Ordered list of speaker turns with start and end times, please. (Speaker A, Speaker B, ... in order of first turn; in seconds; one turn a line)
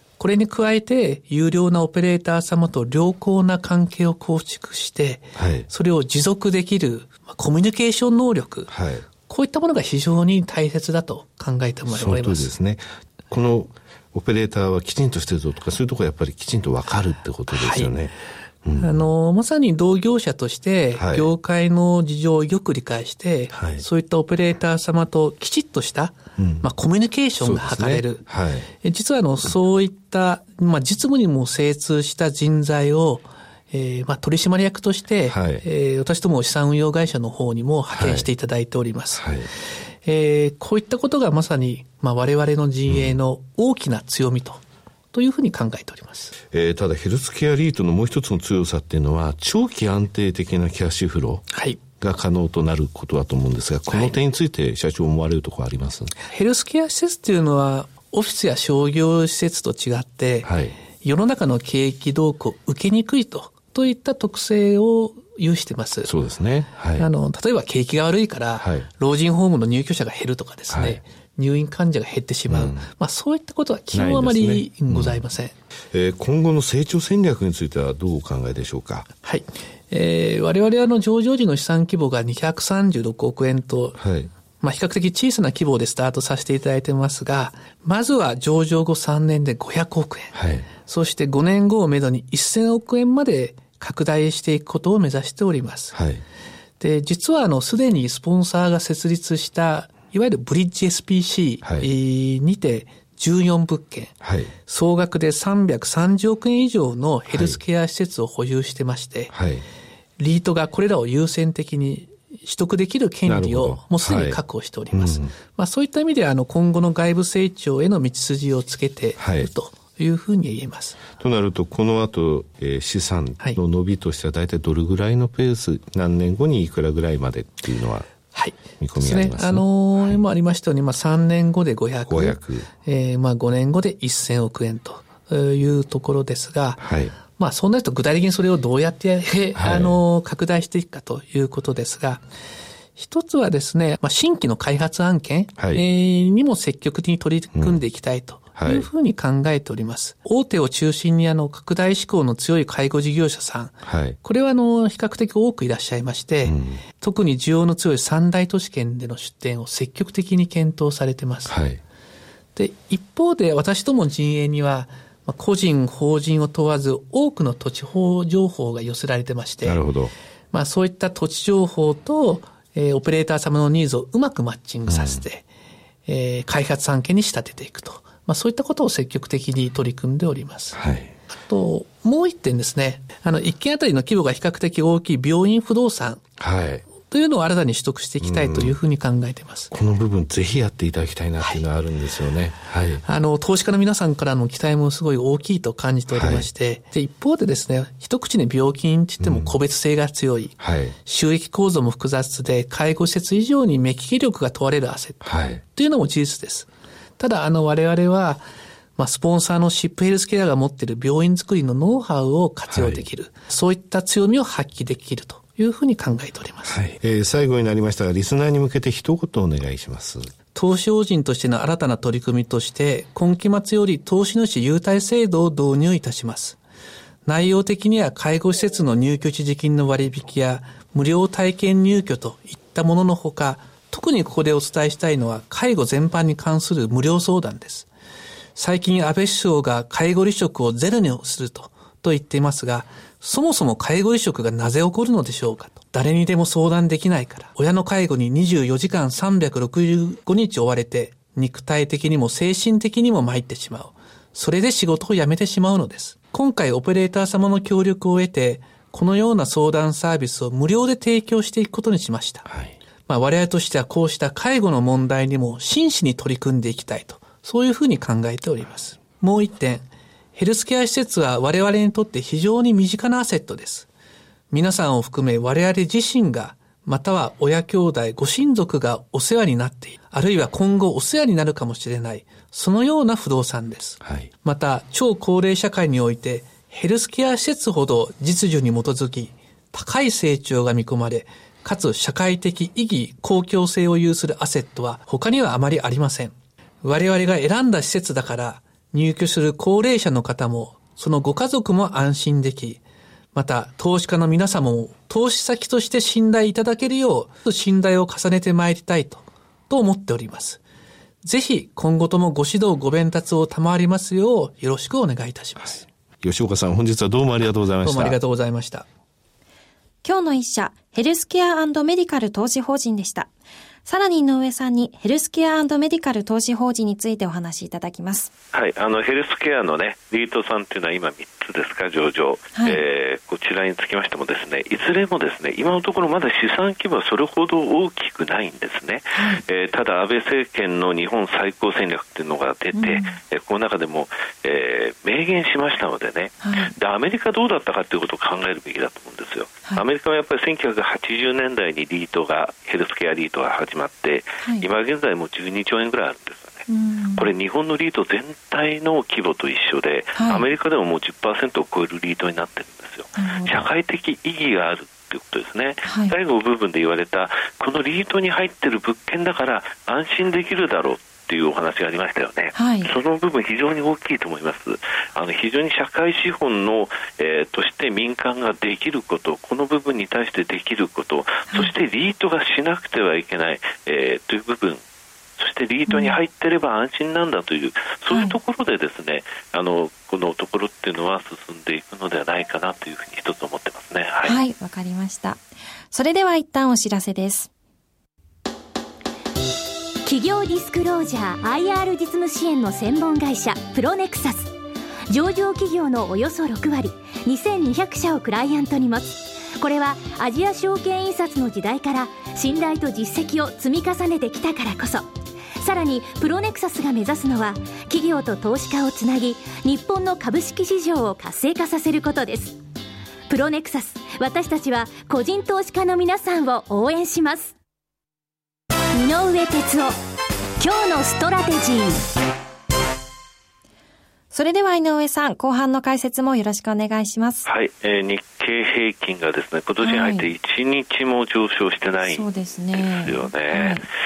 Speaker A: 0.2-8.7
Speaker B: 5.3-5.7
Speaker B: 8.7-9.1
Speaker A: 9.2-12.5
Speaker B: 11.9-19.1
Speaker A: 17.5-17.9
Speaker A: 18.8-28.2
Speaker B: 20.9-21.3
Speaker B: 23.5-23.8
Speaker B: 26.4-26.7
Speaker B: 27.4-28.7
Speaker A: 28.8-39.2
Speaker B: 35.3-35.6
Speaker B: 37.9-38.3
Speaker B: 39.1-39.5
Speaker A: 40.0-44.6
Speaker B: 42.9-43.2
Speaker A: 45.1-46.3
Speaker B: 46.5-51.4
Speaker A: 51.5-51.8
Speaker B: 52.0-56.1
Speaker A: 53.9-54.1
Speaker A: 56.2-66.1
Speaker B: 60.4-60.8
Speaker B: 66.0-67.1
Speaker A: 67.0-75.5
Speaker B: 68.6-68.9
Speaker B: 70.7-71.0
Speaker B: 72.5-72.9
Speaker B: 73.9-75.2
Speaker B: 75.9-79.1
Speaker A: 79.2-84.0
Speaker B: 84.0-84.3
Speaker A: 84.6-96.0
Speaker B: 90.3-90.7
Speaker B: 95.9-96.2
Speaker A: 96.8-109.3
Speaker B: 104.2-104.5
Speaker B: 107.3-107.6
Speaker B: 109.3-109.7
Speaker A: 110.2-121.0
Speaker B: 113.3-115.3
Speaker B: 119.2-119.5
Speaker B: 121.2-128.1
Speaker A: 128.3-142.2
Speaker B: 128.8-130.2
Speaker B: 132.1-132.7
Speaker B: 136.8-137.1
Speaker B: 139.5-140.0
Speaker A: 142.9-161.6
Speaker B: 145.6-145.8
Speaker B: 147.5-147.8
Speaker B: 148.6-148.9
Speaker B: 153.8-154.2
Speaker B: 156.4-156.8
Speaker B: 161.5-161.8
Speaker A: 162.6-169.8
Speaker B: 169.6-170.1
Speaker A: 170.5-175.4
Speaker B: 174.9-175.2
Speaker A: 176.1-180.8
Speaker B: 180.7-181.1
Speaker A: 181.5-186.2
Speaker B: 186.4-186.8
Speaker A: 186.9-189.7
Speaker B: 188.2-188.8
Speaker B: 189.7-193.0
Speaker A: 191.4-191.6
Speaker A: 193.0-208.4
Speaker B: 196.1-196.5
Speaker B: 199.2-199.5
Speaker B: 200.6-200.9
Speaker B: 205.2-205.6
Speaker A: 209.0-216.8
Speaker B: 212.7-213.0
Speaker B: 216.7-220.3
Speaker A: 220.5-226.6
Speaker A: 227.2-237.9
Speaker A: 238.6-262.4
Speaker B: 262.5-262.7
Speaker A: 263.1-273.9
Speaker A: 274.5-302.8
Speaker B: 284.0-284.3
Speaker A: 303.3-310.6
Speaker A: 311.2-315.9
Speaker B: 316.2-318.2
Speaker A: 317.8-318.9
Speaker C: 320.0-323.3
Speaker C: 323.8-328.3
Speaker D: 328.5-384.8
Speaker C: 332.5-332.8
Speaker C: 339.1-339.4
Speaker C: 342.7-343.1
Speaker C: 346.4-346.7
Speaker C: 354.4-354.7
Speaker C: 356.7-357.3
Speaker C: 360.1-360.4
Speaker C: 363.1-363.7
Speaker C: 365.9-366.1
Speaker C: 372.5-372.9
Speaker D: 385.4-394.4
Speaker C: 385.9-386.2
Speaker C: 388.1-388.3
Speaker C: 394.2-395.4
Speaker C: 395.9-397.5
Speaker E: 400.0-404.5
Speaker E: 405.1-422.6
Speaker E: 423.3-427.5
Speaker E: 428.9-429.9
Speaker E: 430.6-432.0
Speaker C: 434.3-437.5
Speaker D: 437.4-443.8
Speaker C: 439.8-440.3
Speaker C: 442.0-443.8